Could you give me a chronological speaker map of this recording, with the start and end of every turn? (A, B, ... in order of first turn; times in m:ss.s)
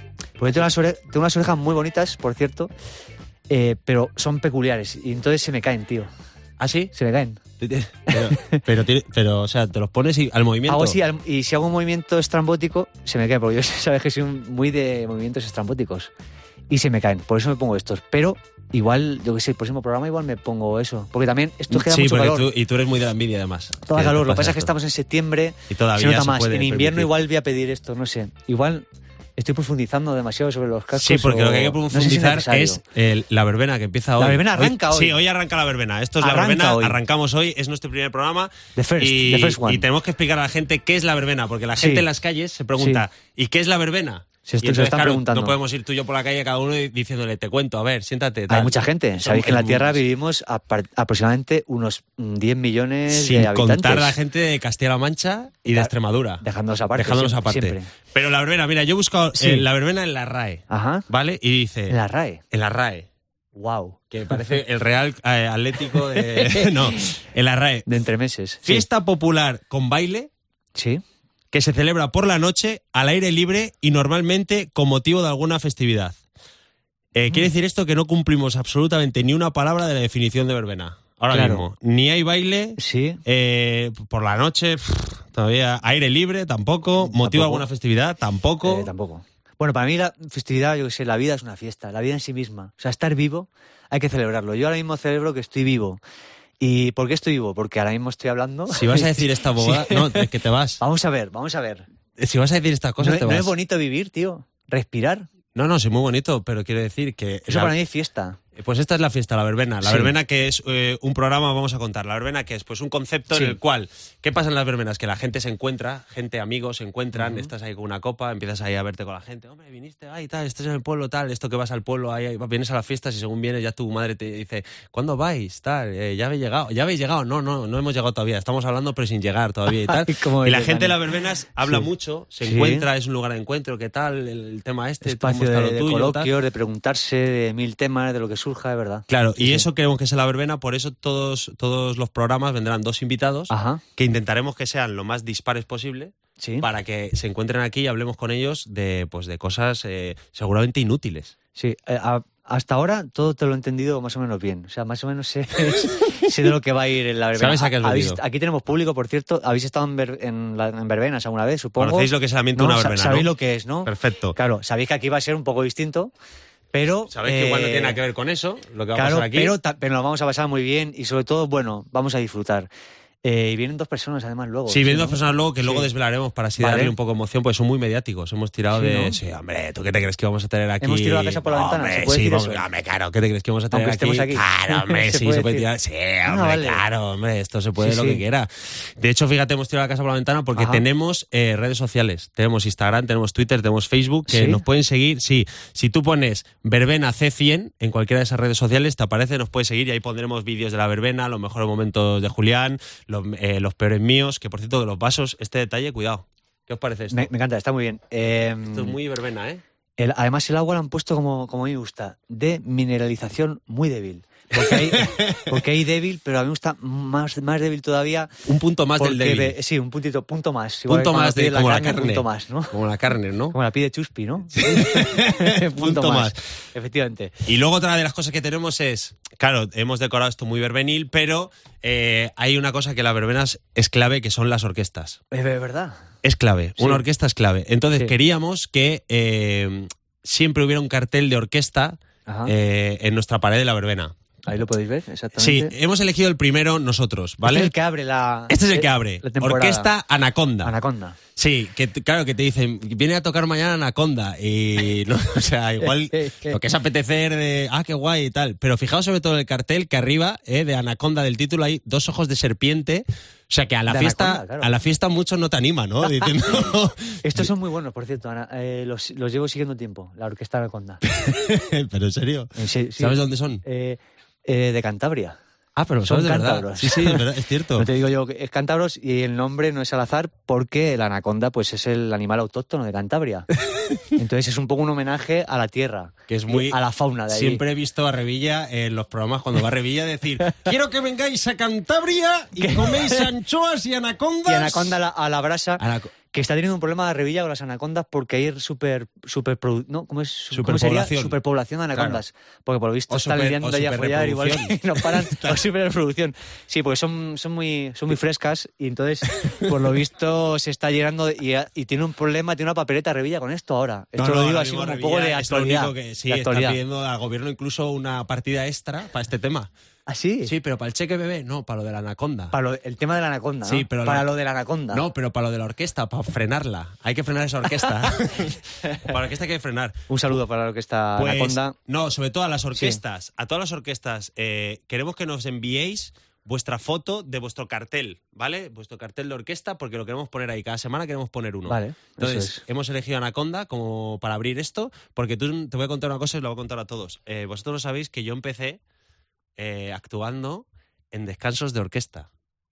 0:00.4-0:02.7 A
0:03.5-0:06.1 A
0:06.6-0:06.9 B
0:06.9-0:07.4 A
0:07.6-0:11.0 B
0:08.1-0:08.6 A
0:10.7-0:16.1 A
0:16.7-0:22.5 A
0:21.7-0:24.7 B
0:23.9-0:28.9 A
0:25.7-0:27.1 B
0:29.4-0:32.8 A
0:31.0-0:50.0 B
0:34.2-0:35.2 A
0:36.2-0:37.0 A
0:38.8-0:39.8 A
0:41.8-0:42.1 A
0:42.8-0:43.0 A
0:44.4-0:45.6 A
0:48.5-0:54.2 A
0:53.1-1:02.0 B
0:55.7-0:57.9 A
0:59.4-0:59.7 A
1:00.7-1:01.1 A
1:01.9-1:02.4 A
1:02.5-1:03.1 B
1:03.6-1:04.0 A
1:04.1-1:07.9 B
1:06.3-1:07.1 A
1:07.9-1:08.9 A
1:08.6-1:10.3 B
1:10.8-1:11.0 A
1:11.5-1:16.2 B
1:17.1-1:28.9 B
1:21.3-1:21.7 A
1:22.8-1:23.2 A
1:27.0-1:27.7 A
1:28.6-1:36.0 A
1:36.6-1:40.3 A
1:38.7-1:40.8 B
1:40.8-1:41.8 A
1:42.2-1:43.5 B
1:43.0-1:45.3 A
1:45.6-1:47.7 B
1:47.5-1:48.4 A
1:48.6-2:16.3 B
1:49.8-1:50.1 A
1:53.3-1:53.6 A
1:57.1-1:57.5 A
2:09.9-2:11.0 A
2:11.6-2:11.9 A
2:12.4-2:12.9 A
2:15.0-2:19.7 A
2:19.1-2:31.3 B
2:23.5-2:23.8 A
2:26.4-2:26.7 A
2:31.6-2:46.1 A
2:37.4-2:38.2 B
2:41.8-2:43.3 B
2:43.8-2:44.4 B
2:46.7-2:48.0 A
2:47.1-2:49.6 B
2:48.9-2:52.7 A
2:53.2-2:55.9 A
2:54.7-3:27.3 B
2:56.6-2:57.0 A
2:58.7-2:59.2 A
3:00.8-3:02.6 A
3:03.7-3:05.7 A
3:06.2-3:06.8 A
3:07.8-3:08.2 A
3:10.6-3:10.8 A
3:14.3-3:14.6 A
3:27.1-3:29.0 A
3:28.7-3:29.6 B
3:30.0-3:38.3 A
3:34.5-3:35.6 B
3:38.5-3:39.6 B
3:39.0-3:42.8 A
3:40.9-3:43.6 B
3:43.5-3:47.4 A
3:44.5-3:46.4 B
3:47.5-3:55.2 B
3:55.3-3:56.0 A
3:56.2-4:04.1 B
3:56.8-3:57.0 A
4:02.3-4:02.5 A
4:04.5-4:05.7 A
4:05.4-4:07.7 B
4:07.4-4:09.9 A
4:08.5-4:10.7 B
4:10.6-4:11.2 A
4:11.4-4:27.5 B
4:16.1-4:16.6 A
4:23.9-4:24.7 A
4:27.2-4:31.0 A
4:31.2-4:33.6 B
4:32.6-4:35.4 A
4:35.8-4:37.9 B
4:36.0-4:37.2 A
4:37.8-4:43.5 A
4:44.2-4:47.6 A
4:46.3-4:55.0 B
4:52.6-4:53.3 A
4:54.5-5:16.8 A
4:55.8-4:56.1 B
5:00.5-5:01.4 B
5:01.9-5:02.2 B
5:03.1-5:05.6 B
5:14.2-5:19.7 B
5:20.1-5:20.5 A
5:20.4-5:22.6 B
5:22.5-5:25.0 A
5:23.6-5:24.3 B
5:24.9-5:30.0 B
5:30.1-5:31.8 A
5:31.2-5:48.8 B
5:32.7-5:33.0 A
5:41.7-5:42.6 A
5:49.6-5:52.3 B